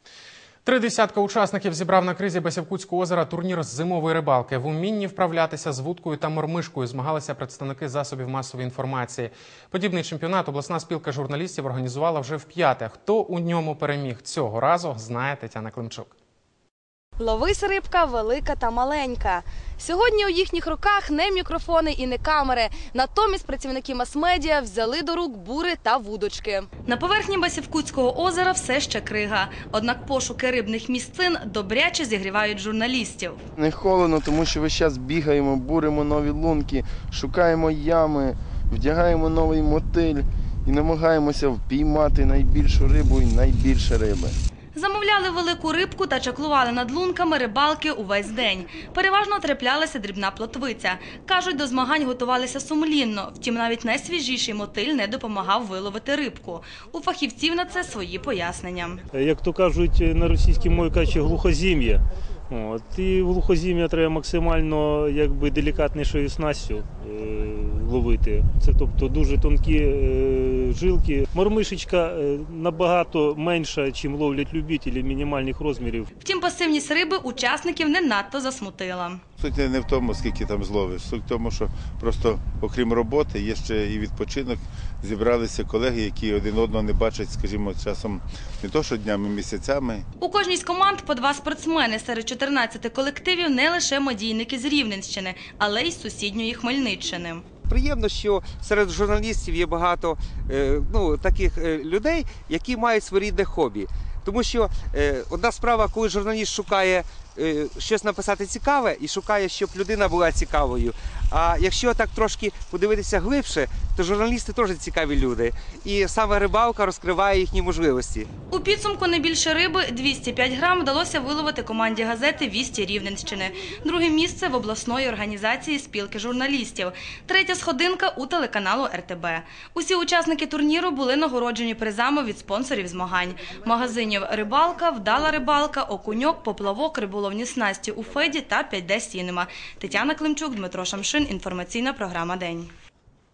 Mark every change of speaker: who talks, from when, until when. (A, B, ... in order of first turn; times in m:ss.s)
0:00.6-0:16.1 A
0:17.2-0:26.7 B
0:26.8-0:33.4 C
0:33.6-0:44.4 D
0:44.7-0:59.0 C
0:59.1-1:16.1 E
1:16.2-1:19.2 C
1:19.4-1:30.0 F
1:30.2-1:37.4 C
1:37.7-1:58.3 G
1:58.5-2:22.7 C